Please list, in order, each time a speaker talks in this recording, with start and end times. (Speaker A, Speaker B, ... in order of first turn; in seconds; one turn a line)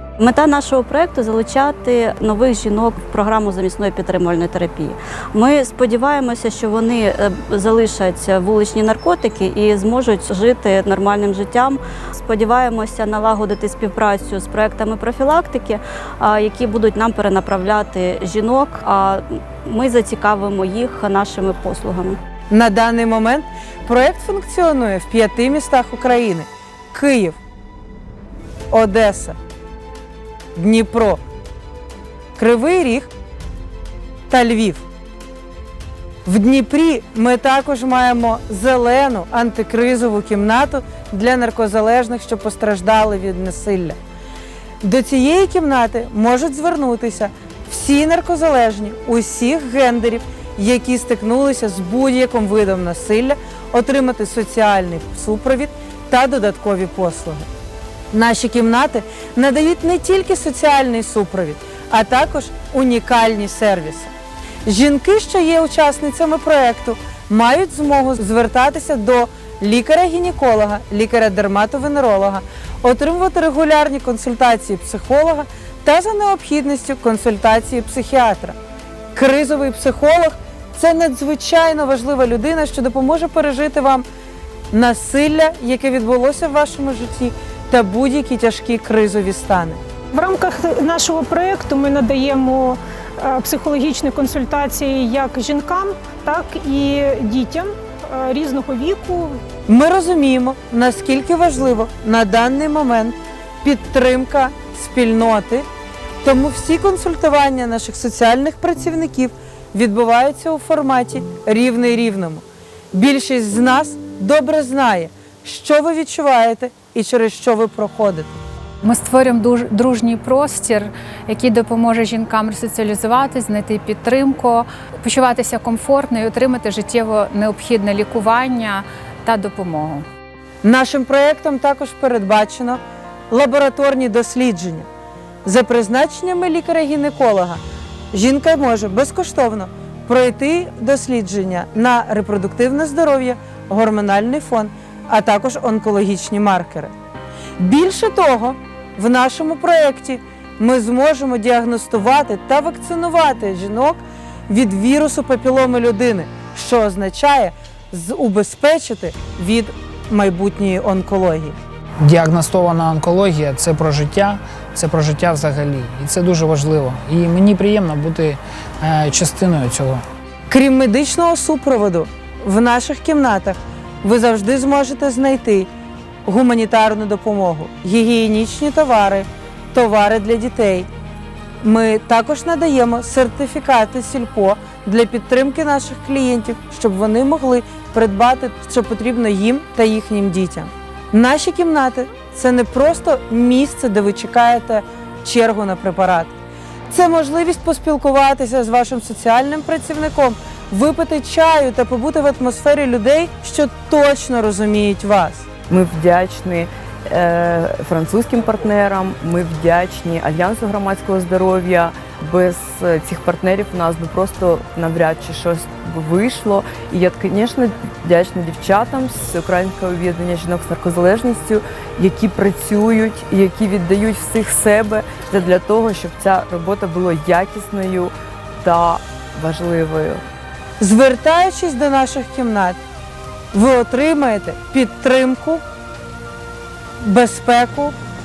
Speaker A: 0.2-22.2
Speaker B: 22.5-27.4
Speaker B: 28.7-29.4
Speaker B: 30.6-31.2
Speaker B: 32.4-33.1
Speaker B: 34.3-34.8
Speaker B: 36.2-44.0
Speaker B: 44.8-57.5
Speaker B: 58.1-64.1
Speaker B: 64.7-78.5
Speaker B: 79.1-84.0
Speaker B: 84.7-89.8
Speaker C: 90.1-99.4
Speaker B: 99.7-105.7
Speaker B: 106.2-118.4
Speaker D: 118.8-130.0
Speaker B: 130.6-132.8
Speaker B: 133.3-134.9
Speaker B: 135.4-137.6
Speaker B: 138.1-146.9
Speaker B: 147.6-161.6
Speaker E: 162.0-170.0
Speaker B: 170.5-175.7
Speaker B: 176.2-180.9
Speaker B: 181.6-196.3
Speaker B: 196.9-205.5
Speaker F: 205.7-230.2
Speaker B: 230.8-232.8
Speaker B: 233.5-235.6
Speaker B: 237.0-237.9